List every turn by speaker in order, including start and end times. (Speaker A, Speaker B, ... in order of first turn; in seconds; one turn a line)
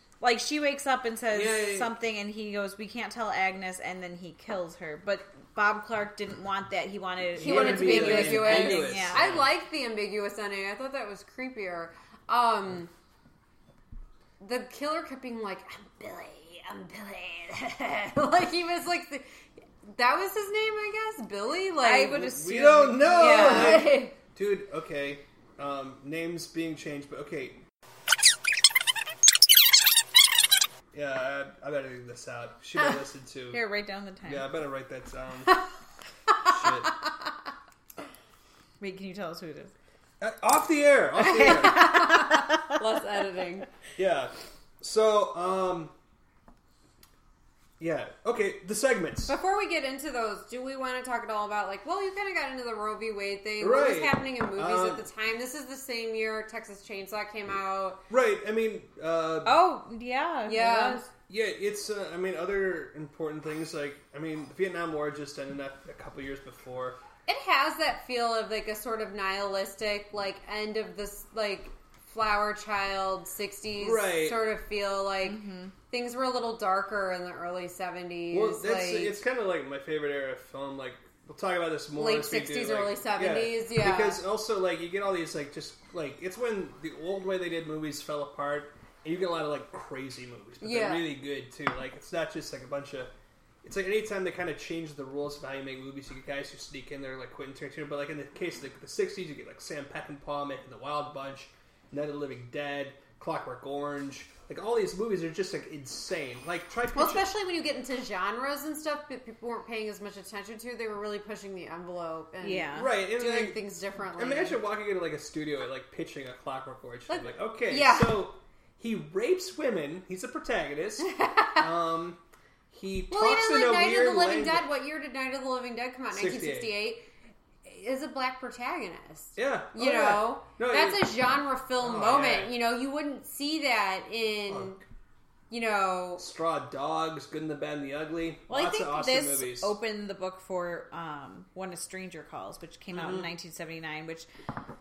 Speaker A: 0.2-9.2
Speaker B: 1.3-1.9
Speaker B: 7.4-9.5
Speaker C: 7.4-12.9
Speaker C: 14.4-19.3
Speaker C: 19.8-22.4
Speaker A: 21.8-24.0
Speaker B: 22.1-27.6
Speaker C: 22.9-24.1
Speaker B: 30.9-33.6
Speaker A: 33.5-34.5
Speaker B: 34.2-35.6
Speaker B: 36.4-36.9
Speaker A: 38.8-39.7
Speaker B: 40.2-42.0
Speaker A: 41.2-42.8
Speaker C: 41.5-43.7
Speaker B: 44.0-45.9
Speaker B: 47.8-49.3
Speaker C: 49.3-58.0
Speaker B: 53.6-55.0
Speaker B: 58.1-59.5
Speaker A: 59.4-61.1
Speaker C: 60.5-61.0
Speaker B: 61.3-67.0
Speaker C: 67.2-79.2
Speaker B: 73.8-74.5
Speaker A: 75.2-75.7
Speaker B: 78.3-93.1
Speaker C: 81.9-84.2
Speaker C: 90.6-91.1
Speaker B: 93.6-107.3
Speaker C: 106.9-114.6
Speaker A: 112.4-112.9
Speaker B: 112.7-113.6
Speaker B: 114.2-122.2
Speaker C: 117.1-118.3
Speaker C: 121.1-121.6
Speaker B: 122.7-124.7
Speaker C: 123.1-127.0
Speaker B: 126.1-126.7
Speaker C: 127.6-134.8
Speaker B: 129.3-131.2
Speaker B: 131.8-132.5
Speaker B: 134.5-134.8
Speaker C: 135.5-136.2
Speaker B: 136.2-139.7
Speaker A: 138.5-144.3
Speaker B: 142.9-143.3